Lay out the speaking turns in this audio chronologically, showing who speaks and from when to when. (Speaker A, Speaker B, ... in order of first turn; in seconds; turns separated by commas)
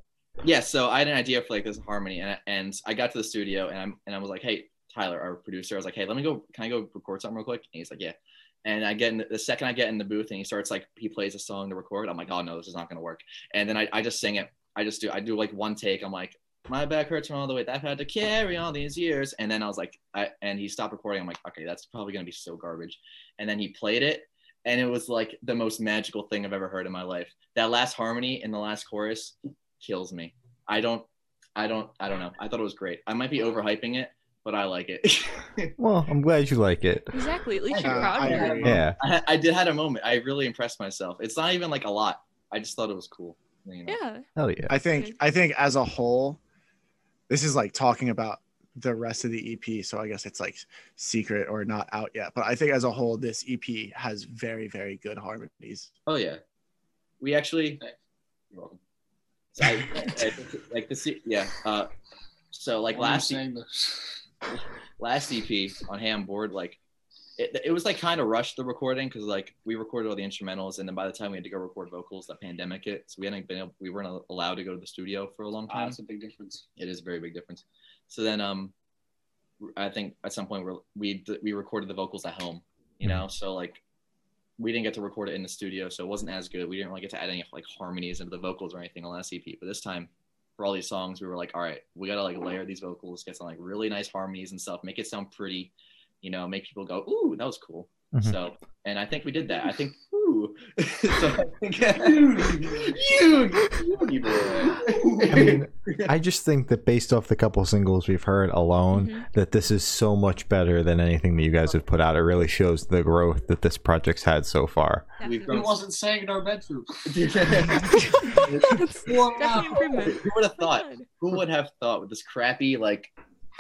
Speaker A: 0.4-35.7, Speaker B: 35.8-37.2, Speaker C: 37.1-38.7, Speaker A: 37.7-44.0, Speaker D: 37.8-38.8, Speaker E: 38.2-38.8, Speaker B: 38.6-39.0, Speaker C: 43.9-44.3, Speaker B: 44.4-44.8, Speaker D: 44.7-46.4, Speaker D: 47.3-55.9, Speaker A: 56.1-56.4, Speaker A: 57.2-57.8, Speaker A: 58.5-58.8, Speaker A: 59.5-61.9, Speaker A: 62.5-63.4, Speaker E: 62.9-64.2, Speaker A: 64.5-66.8, Speaker A: 67.4-76.0, Speaker E: 75.7-76.7, Speaker A: 76.8-78.7, Speaker A: 79.6-83.8, Speaker A: 84.6-106.1, Speaker B: 98.1-98.4, Speaker E: 102.0-103.0, Speaker E: 104.8-105.5, Speaker B: 105.3-115.1, Speaker C: 108.9-109.2, Speaker C: 115.2-115.7, Speaker A: 115.2-115.8, Speaker E: 115.5-117.8, Speaker A: 117.1-118.8, Speaker C: 117.8-121.1, Speaker E: 119.0-120.1, Speaker A: 120.0-123.1